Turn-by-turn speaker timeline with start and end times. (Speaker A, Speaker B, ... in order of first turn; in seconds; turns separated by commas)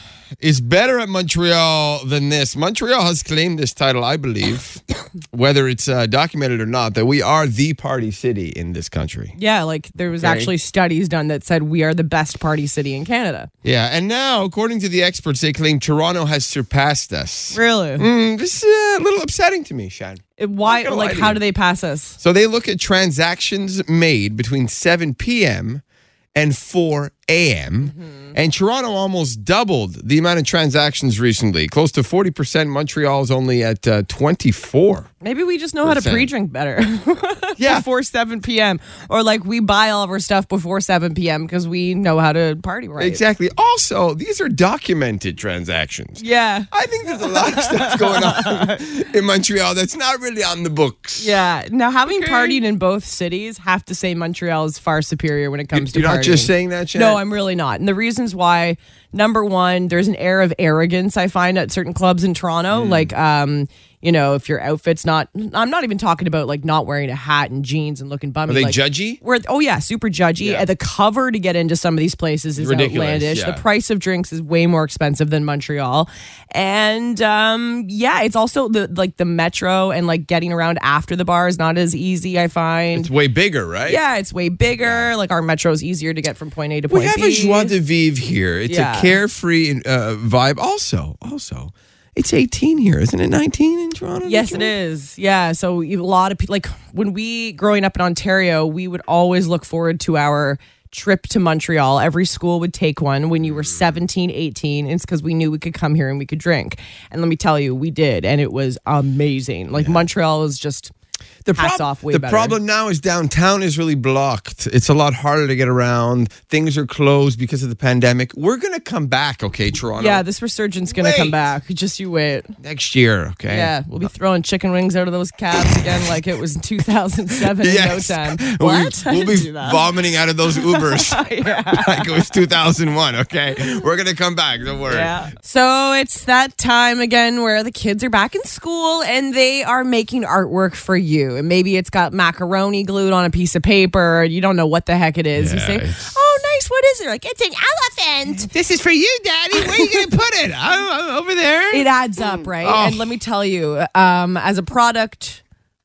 Speaker A: 0.4-9.3, Speaker B: 9.3-13.5, Speaker A: 10.2-10.5, Speaker A: 13.6-21.4, Speaker B: 17.5-18.1, Speaker B: 20.4-22.2, Speaker A: 22.2-25.8, Speaker A: 26.3-35.1, Speaker B: 27.8-28.3, Speaker B: 35.2-43.2, Speaker A: 35.8-36.3, Speaker A: 37.6-37.8, Speaker A: 43.0-51.3, Speaker B: 46.2-48.8, Speaker B: 51.2-83.1, Speaker A: 52.1-52.6, Speaker A: 55.7-57.2, Speaker A: 62.7-63.1, Speaker A: 68.5-69.2, Speaker A: 70.4-70.7, Speaker A: 72.5-73.6, Speaker A: 82.9-84.0, Speaker B: 83.8-87.8, Speaker A: 84.8-85.1, Speaker A: 86.9-94.7, Speaker B: 88.7-89.2, Speaker B: 94.2-110.9, Speaker A: 109.7-110.1, Speaker A: 111.4-120.2, Speaker B: 111.5-112.6, Speaker B: 120.0-122.5, Speaker A: 120.9-121.4, Speaker A: 122.6-124.1, Speaker B: 123.5-129.9, Speaker A: 127.5-135.1, Speaker B: 130.5-132.2, Speaker B: 134.9-148.5, Speaker A: 145.3-146.1, Speaker A: 148.5-151.9, Speaker B: 151.7-155.4, Speaker A: 152.6-153.0